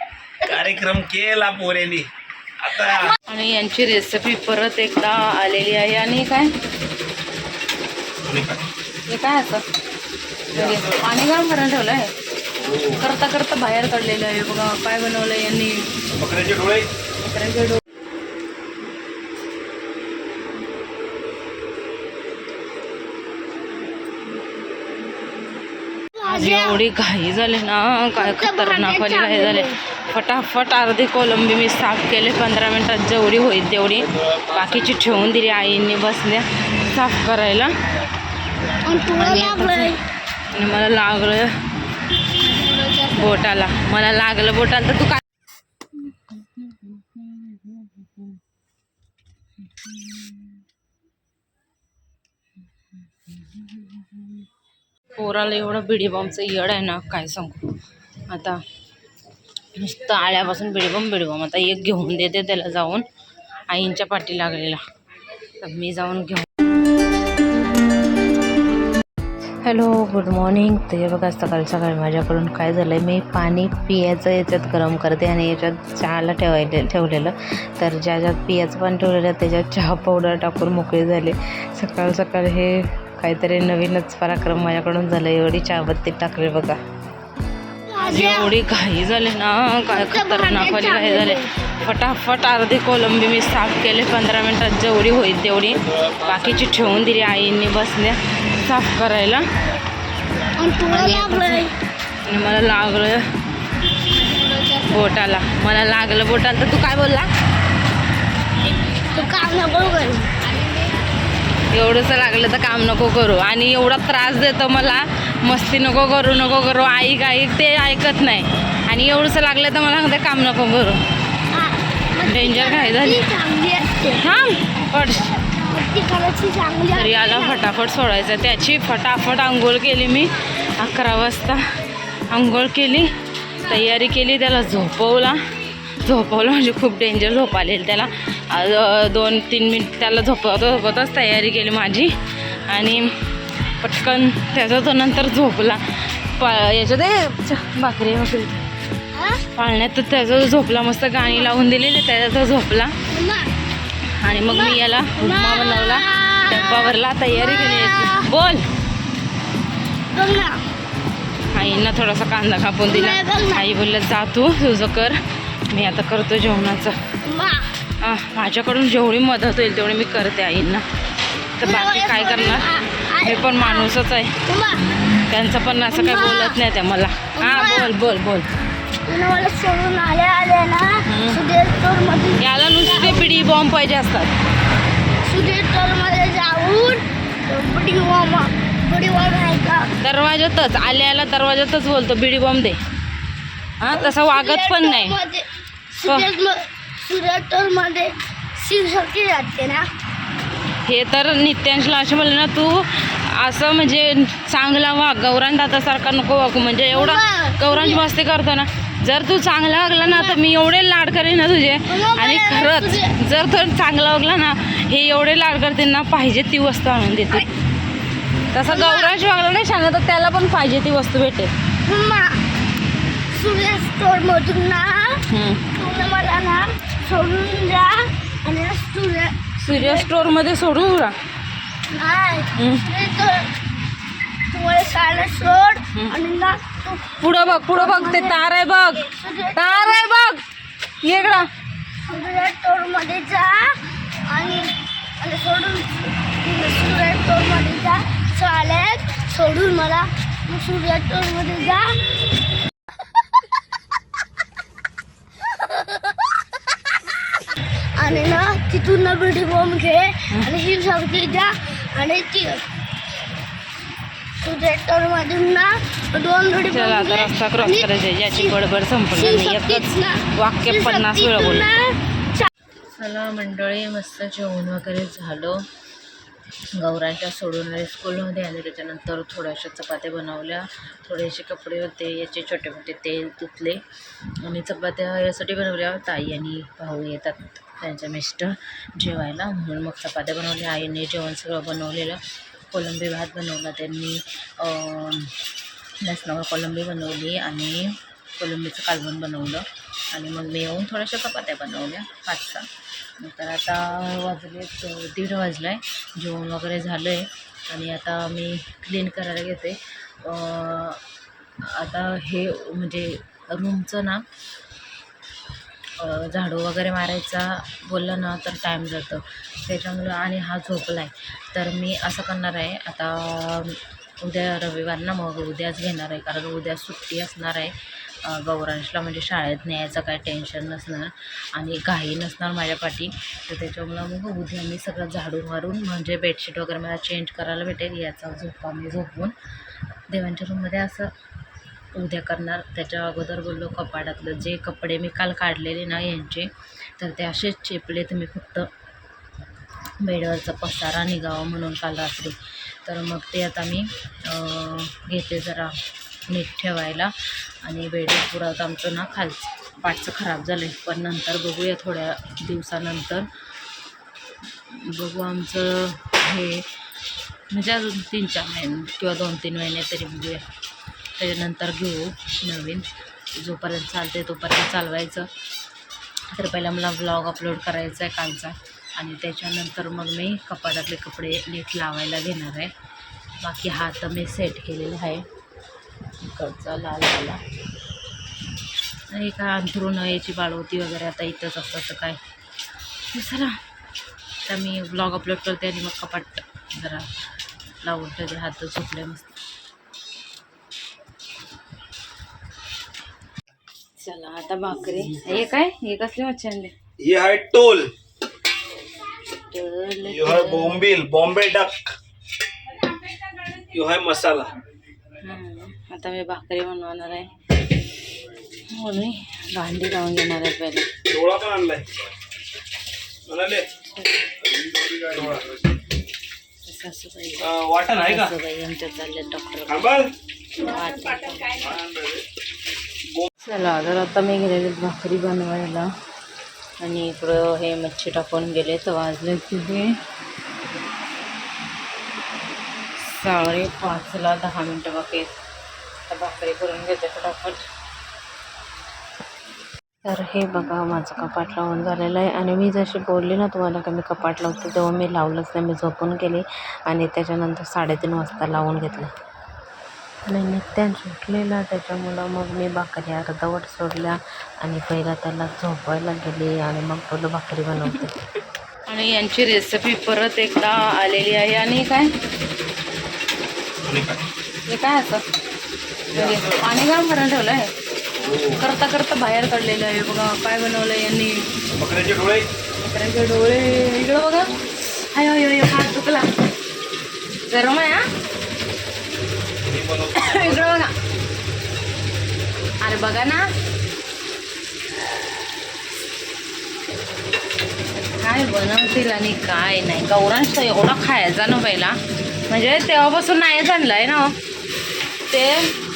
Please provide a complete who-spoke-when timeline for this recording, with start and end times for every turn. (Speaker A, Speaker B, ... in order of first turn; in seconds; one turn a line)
Speaker A: 0.4-2.1
Speaker A: 2.6-3.1
Speaker B: 3.3-6.5
Speaker A: 8.2-8.6
Speaker B: 9.1-9.6
Speaker A: 10.5-11.1
Speaker B: 10.5-12.1
Speaker A: 12.6-13.1
Speaker B: 13.0-15.9
Speaker A: 16.1-16.9
Speaker B: 17.2-17.8
Speaker C: 26.2-26.8
Speaker B: 26.2-37.7
Speaker C: 28.1-29.8
Speaker A: 34.2-35.0
Speaker C: 38.9-40.0
Speaker B: 39.2-40.0
Speaker B: 40.5-41.5
Speaker C: 42.5-43.2
Speaker B: 43.1-45.2
Speaker B: 46.1-48.4
Speaker B: 49.7-50.5
Speaker B: 53.2-54.4
Speaker B: 55.1-57.7
Speaker B: 58.3-58.6
Speaker B: 59.7-63.0
Speaker B: 63.7-64.8
Speaker B: 65.6-66.5
Speaker B: 69.6-86.8
Speaker C: 87.9-88.5
Speaker B: 88.0-99.5
Speaker C: 89.9-91.5
Speaker A: 95.7-96.9
Speaker C: 100.6-101.7
Speaker B: 100.9-101.7
Speaker B: 102.2-103.2
Speaker B: 104.7-107.3
Speaker C: 109.1-110.5
Speaker B: 111.7-121.0
Speaker C: 121.5-124.4
Speaker B: 122.2-123.3
Speaker B: 124.1-125.4
Speaker C: 125.3-127.7
Speaker B: 126.9-131.6
Speaker B: 132.3-135.4
Speaker B: 136.0-142.1
Speaker B: 142.7-143.1
Speaker B: 143.8-148.6
Speaker C: 149.1-149.4
Speaker B: 149.5-152.9
Speaker C: 153.1-153.5
Speaker B: 154.2-158.7
Speaker C: 154.5-158.3
Speaker C: 160.1-160.6
Speaker B: 161.5-165.2
Speaker C: 162.8-163.7
Speaker B: 165.7-167.0
Speaker C: 167.2-167.7
Speaker B: 168.0-170.8
Speaker B: 171.6-174.3
Speaker C: 171.6-173.9
Speaker C: 174.5-174.8
Speaker B: 175.3-178.5
Speaker C: 175.9-176.6
Speaker C: 177.4-177.9
Speaker C: 179.1-183.6
Speaker B: 181.1-181.4
Speaker B: 182.4-184.3
Speaker C: 185.2-189.9
Speaker B: 190.0-192.8
Speaker B: 193.8-195.2
Speaker C: 193.9-199.9
Speaker B: 200.8-217.5
Speaker C: 206.9-208.1
Speaker C: 210.1-210.4
Speaker C: 211.9-213.1
Speaker B: 218.5-221.5
Speaker C: 218.7-219.2
Speaker C: 221.8-222.4
Speaker C: 223.3-230.1
Speaker B: 225.3-225.7
Speaker B: 229.6-231.2
Speaker C: 231.9-233.5
Speaker B: 232.6-232.9
Speaker C: 234.5-238.4
Speaker B: 237.2-240.4
Speaker C: 239.0-240.1
Speaker B: 241.0-241.5
Speaker C: 242.1-252.0
Speaker C: 255.5-256.3
Speaker C: 257.9-262.6
Speaker C: 264.4-268.6
Speaker B: 266.6-271.7
Speaker C: 269.1-272.5
Speaker B: 272.9-275.6
Speaker B: 276.8-283.8
Speaker B: 284.4-292.2
Speaker B: 292.7-295.3
Speaker B: 296.0-302.7
Speaker B: 303.2-311.0
Speaker B: 311.6-314.2
Speaker B: 316.0-339.4
Speaker B: 340.1-341.1
Speaker B: 341.9-348.7
Speaker B: 350.0-355.7
Speaker B: 356.3-363.3
Speaker B: 364.7-366.7
Speaker B: 367.5-370.4
Speaker B: 371.2-375.3
Speaker B: 376.3-382.7
Speaker B: 383.4-385.2
Speaker B: 386.3-387.4
Speaker B: 389.1-392.2
Speaker B: 393.1-393.6
Speaker B: 394.4-397.1
Speaker B: 397.8-399.3
Speaker B: 404.0-406.7
Speaker A: 407.0-407.9
Speaker B: 409.5-410.8
Speaker A: 410.0-411.9
Speaker A: 413.7-414.5
Speaker B: 415.2-417.3
Speaker B: 418.7-420.9
Speaker A: 421.1-421.9
Speaker A: 423.3-423.7
Speaker A: 424.4-425.6
Speaker B: 426.7-429.9
Speaker A: 427.4-428.3
Speaker A: 429.7-430.1
Speaker B: 430.6-431.6
Speaker A: 431.5-432.2
Speaker B: 433.4-435.9
Speaker B: 436.8-440.0
Speaker B: 443.0-445.3
Speaker B: 446.1-447.6
Speaker B: 450.1-459.1
Speaker B: 460.2-468.1
Speaker B: 468.9-472.1
Speaker A: 473.8-474.2
Speaker B: 474.7-475.2
Speaker A: 476.1-476.6
Speaker B: 476.1-477.7
Speaker A: 478.1-478.6
Speaker B: 478.6-481.5
Speaker A: 481.7-482.5
Speaker B: 482.8-486.3
Speaker B: 487.4-488.0
Speaker A: 489.6-490.7
Speaker B: 490.1-490.9
Speaker B: 492.8-493.5
Speaker B: 498.0-502.0
Speaker B: 502.5-504.3
Speaker B: 505.3-505.7